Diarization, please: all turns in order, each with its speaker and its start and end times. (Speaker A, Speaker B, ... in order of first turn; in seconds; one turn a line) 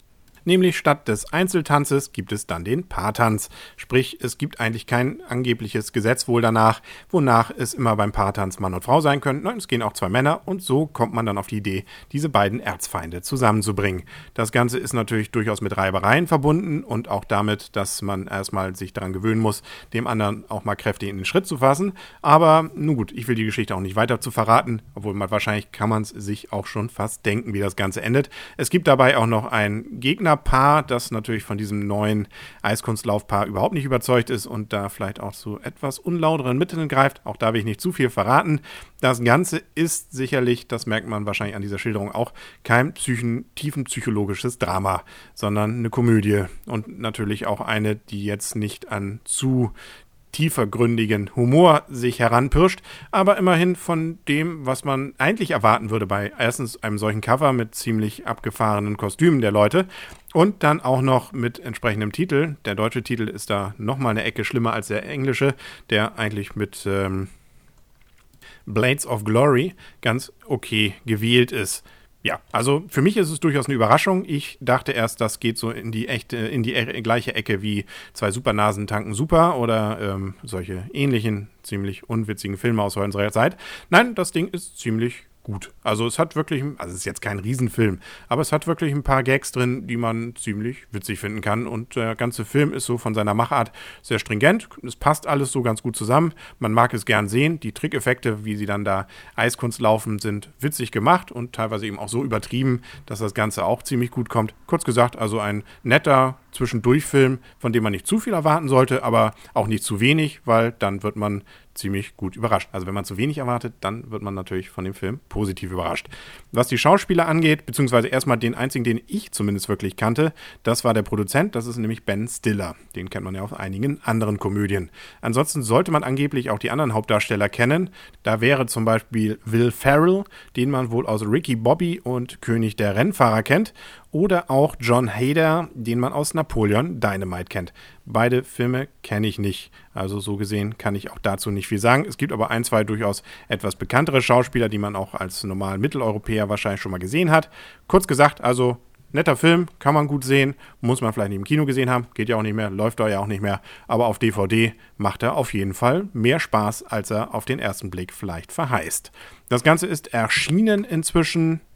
Speaker A: 0.5-49.7
Speaker A: 50.3-67.3
Speaker A: 68.7-161.6